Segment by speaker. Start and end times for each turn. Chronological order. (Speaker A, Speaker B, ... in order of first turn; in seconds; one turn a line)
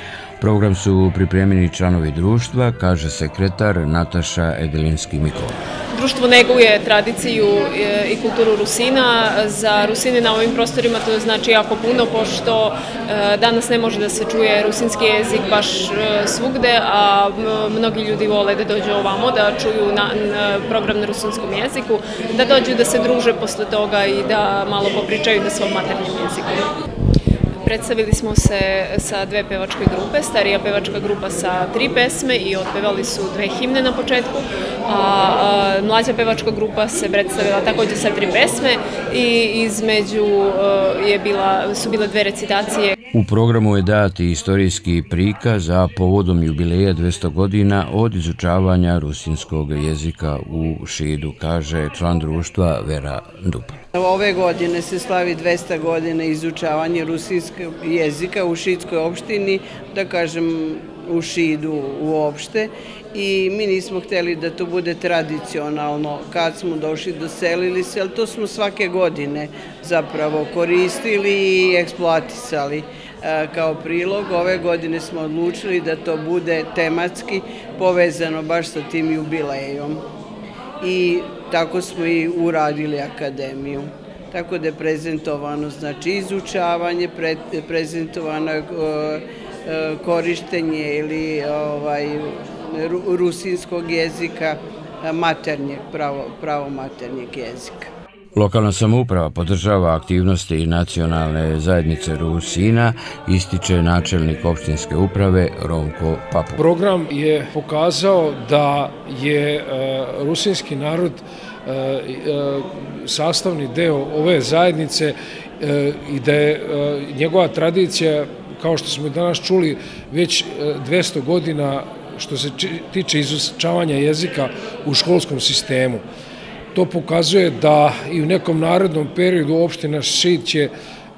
Speaker A: 0.4-5.6
Speaker B: 5.9-26.7
Speaker B: 27.6-43.0
Speaker A: 43.1-53.8
Speaker C: 54.0-80.0
Speaker C: 80.8-97.9
Speaker A: 98.3-106.6
Speaker D: 106.6-126.0
Speaker D: 126.8-130.7